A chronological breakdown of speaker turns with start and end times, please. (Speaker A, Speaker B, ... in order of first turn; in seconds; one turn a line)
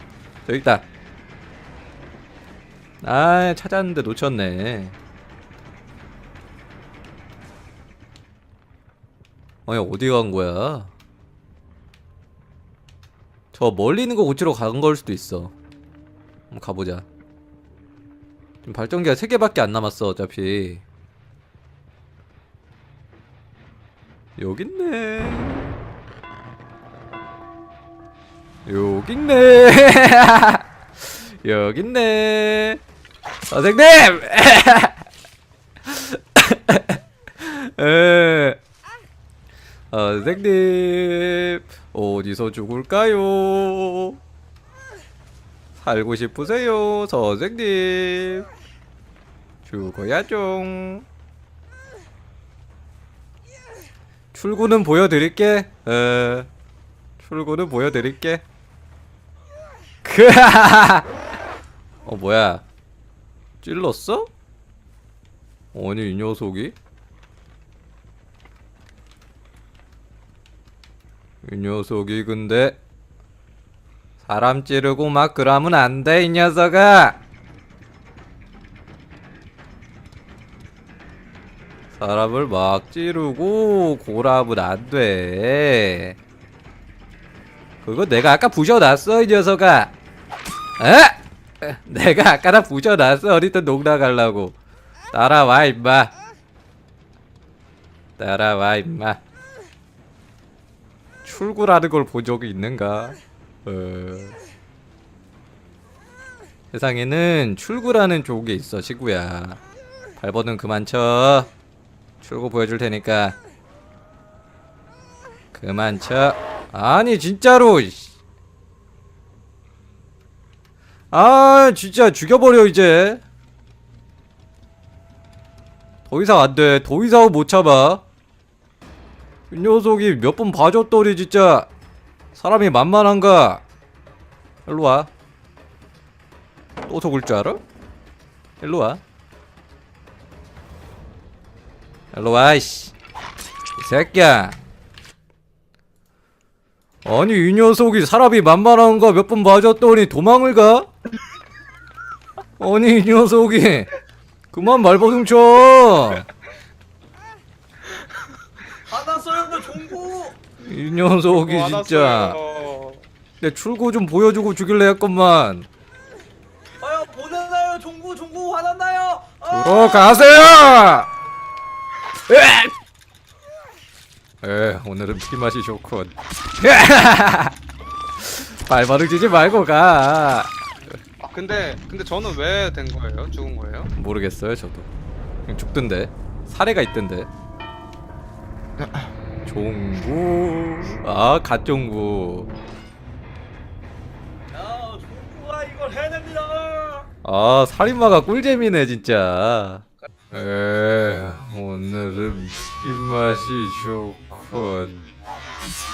Speaker A: 0.5-0.8
Speaker A: 3.0-5.0
Speaker A: 9.7-10.9
Speaker A: 13.5-15.5
Speaker A: 16.5-17.1
Speaker A: 18.6-20.8
Speaker A: 24.4-25.8
Speaker A: 28.6-32.8
Speaker A: 33.5-35.0
Speaker A: 35.8-38.6
Speaker A: 39.9-44.2
Speaker A: 45.8-48.5
Speaker A: 49.6-51.0
Speaker A: 54.3-56.5
Speaker A: 57.2-58.4
Speaker A: 60.0-61.1
Speaker A: 62.0-62.6
Speaker A: 63.6-64.3
Speaker A: 65.7-66.7
Speaker A: 71.4-72.8
Speaker A: 74.2-77.2
Speaker A: 81.9-86.2
Speaker A: 87.8-89.9
Speaker A: 90.8-94.6
Speaker A: 95.1-96.1
Speaker A: 98.2-99.2
Speaker A: 101.2-104.4
Speaker A: 106.7-109.6
Speaker A: 110.2-111.5
Speaker A: 112.2-113.4
Speaker A: 115.5-118.2
Speaker A: 121.1-123.2
Speaker A: 126.1-128.0
Speaker A: 129.5-131.7
Speaker A: 132.3-133.6
Speaker A: 134.7-135.1
Speaker A: 136.8-137.6
Speaker A: 138.6-139.0
Speaker A: 142.1-142.9
Speaker A: 143.8-144.6
Speaker A: 147.0-150.9
Speaker A: 152.6-153.9
Speaker A: 154.5-156.2
Speaker B: 158.9-160.4
Speaker A: 160.6-162.4
Speaker C: 161.3-163.0
Speaker A: 163.4-165.7
Speaker B: 166.8-170.5
Speaker A: 169.5-171.1
Speaker A: 172.3-172.7
Speaker A: 174.4-177.5
Speaker A: 178.2-181.0
Speaker C: 181.2-183.9
Speaker A: 183.9-184.9
Speaker A: 185.5-187.3
Speaker C: 188.8-189.1
Speaker A: 189.4-192.5
Speaker B: 194.5-197.1
Speaker A: 197.2-205.1